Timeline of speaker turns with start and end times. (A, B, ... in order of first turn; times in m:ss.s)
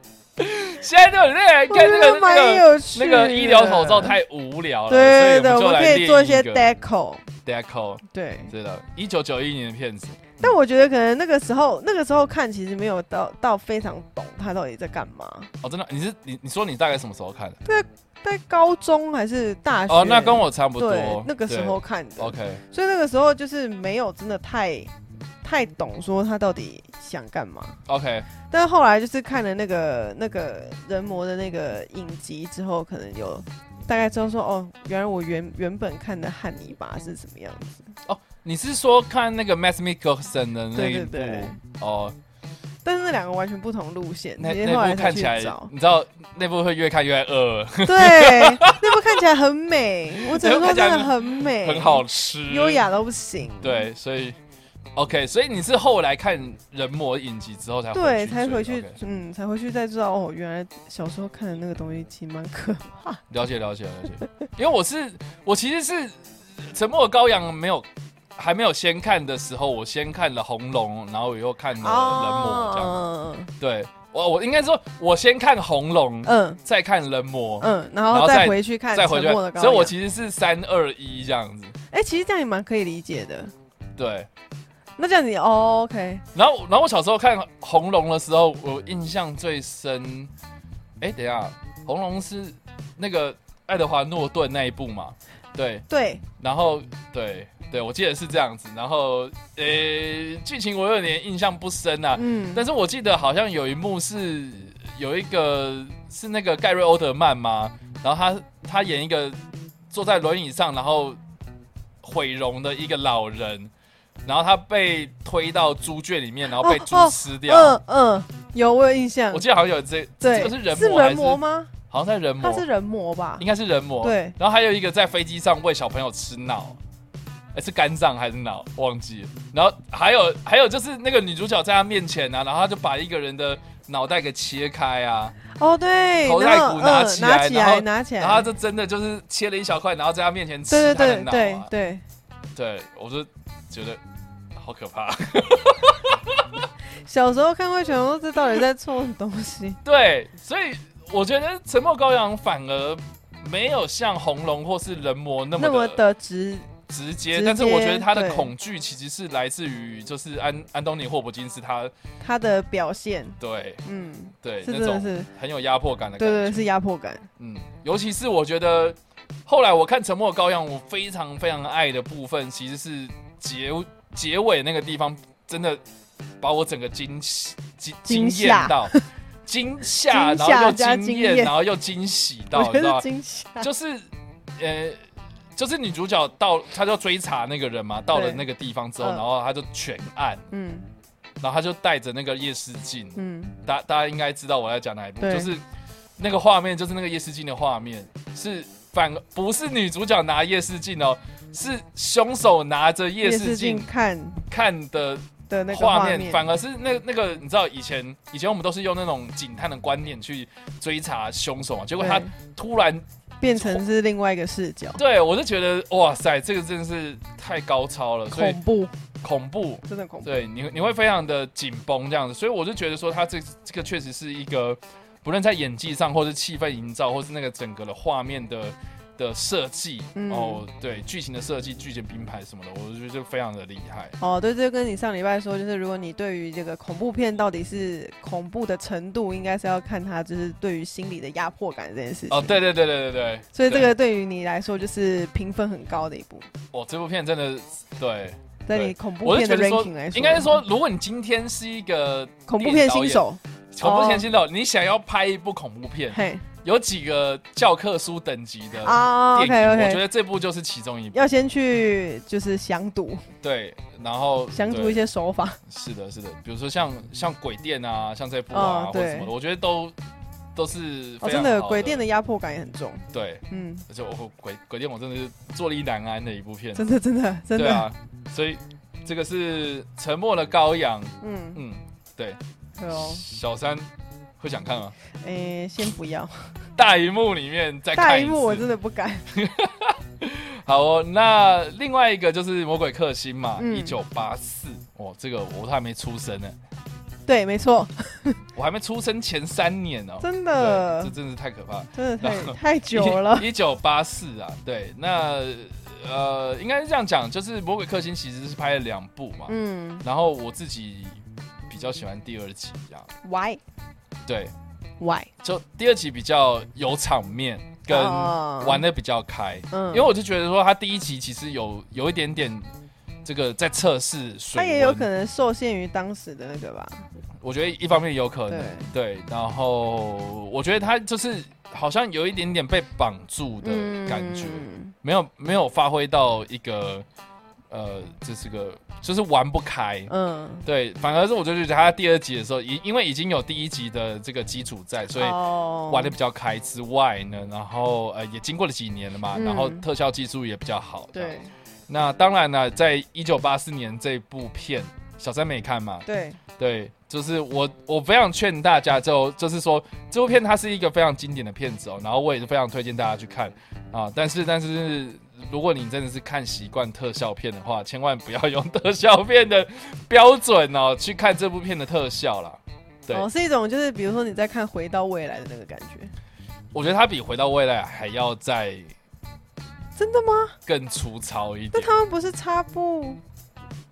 0:00.4-0:06.6 A
0:01.7-0:04.2 B
0:04.9-0:07.2 B
0:07.4-0:10.5 A
0:08.1-0:08.5 B
0:10.4-0:15.5 B
0:15.6-0:17.6 A
0:17.6-0:24.9 B
0:19.9-0:22.6 A
0:25.4-0:27.8 B
0:27.9-0:28.3 A
0:28.5-0:37.9 B
0:38.1-0:42.2 A
0:40.7-0:41.6 B
0:42.8-0:45.7 B
0:44.4-0:49.1 A
0:47.8-0:53.9 B
0:50.2-0:52.8 A
0:53.6-0:54.4 A
0:55.0-0:59.0 A
0:57.9-1:03.2 B
1:03.3-1:13.0 A
1:11.8-1:13.5 B
1:13.6-1:21.8 A
1:16.2-1:16.6 B
1:17.6-1:19.9 B
1:21.9-1:23.5 B
1:24.0-1:24.3 A
1:25.0-1:26.2 B
1:26.3-1:30.3 A
1:31.0-1:35.9 A
1:35.9-1:36.2 B
1:36.4-1:51.2 A
1:42.2-1:42.6 B
1:52.0-1:53.7 A
1:54.2-1:57.8 A
1:56.5-1:59.4 B
1:59.3-2:02.6 A
2:00.2-2:01.7 B
2:02.4-2:03.5 B
2:03.4-2:06.8 A
2:04.0-2:04.4 B
2:07.5-2:15.4 A
2:15.6-2:18.5 B
2:16.2-2:21.7 A
2:20.7-2:22.0 B
2:22.6-2:24.0 A
2:24.5-2:26.7 A
2:27.0-2:29.8 B
2:29.8-2:36.0 A
2:35.6-2:36.8 B
2:36.9-2:41.9 A
2:37.3-2:38.5 B
2:42.2-2:45.3 B
2:43.4-2:43.8 A
2:44.4-2:46.7 A
2:46.2-2:47.3 B
2:47.4-2:55.8 A
2:56.4-3:03.0 A
2:58.0-2:59.0 B
3:00.1-3:01.5 B
3:02.5-3:03.7 B
3:03.6-3:05.0 A
3:05.6-3:10.4 A
3:08.1-3:08.4 B
3:10.5-3:10.9 B
3:11.4-3:15.6 A
3:13.2-3:13.6 B
3:15.2-3:15.5 B
3:16.2-3:23.9 A
3:23.2-3:24.4 B
3:24.5-3:33.8 A
3:25.5-3:26.4 B
3:32.0-3:32.3 B
3:33.4-3:35.0 B
3:35.0-3:38.6 A
3:38.3-3:38.9 B
3:39.2-3:54.2 A
3:39.9-3:40.3 B
3:50.2-3:50.6 B
3:54.2-4:02.6 B
4:02.3-4:03.9 A
4:03.5-4:06.5 B
4:06.7-4:21.2 A
4:08.7-4:10.6 B
4:12.5-4:14.3 B
4:16.1-4:16.4 B
4:18.8-4:20.0 B
4:21.1-4:23.2 B
4:23.4-4:25.0 A
4:24.5-4:25.6 B
4:25.7-4:30.0 A
4:28.5-4:29.3 B
4:30.6-4:32.0 A
4:31.2-4:33.8 B
4:33.1-4:36.8 A
4:36.8-4:37.9 B
4:37.6-4:42.4 A
4:41.2-4:41.6 B
4:42.8-4:43.2 B
4:42.9-4:45.0 A
4:45.2-4:46.6 B
4:46.8-4:48.6 A
4:47.9-4:49.3 B
4:49.3-4:56.6 A
4:53.6-4:54.0 B
4:57.3-4:58.4 B
4:58.6-5:13.1 A
5:00.2-5:01.1 B
5:01.9-5:03.5 B
5:09.5-5:10.0 B
5:13.2-5:13.6 B
5:14.3-5:14.5 A
5:15.0-5:15.3 B
5:15.4-5:22.7 A
5:17.9-5:18.8 B
5:19.7-5:20.1 B
5:23.2-5:25.1 A
5:24.6-5:27.1 B
5:27.4-5:37.1 A
5:28.5-5:28.9 B
5:33.6-5:34.9 B
5:37.7-5:40.1 A
5:40.1-5:40.7 B
5:40.6-5:45.4 A
5:45.1-5:46.2 B
5:45.9-5:51.4 A
5:49.3-5:49.8 B
5:51.1-5:51.5 B
5:51.9-5:56.0 A
5:56.1-5:56.4 B
5:56.6-6:13.3 A
6:13.1-6:16.1 B
6:16.7-6:18.9 A
6:20.0-6:20.6 B
6:20.7-6:22.0 A
6:21.7-6:23.2 B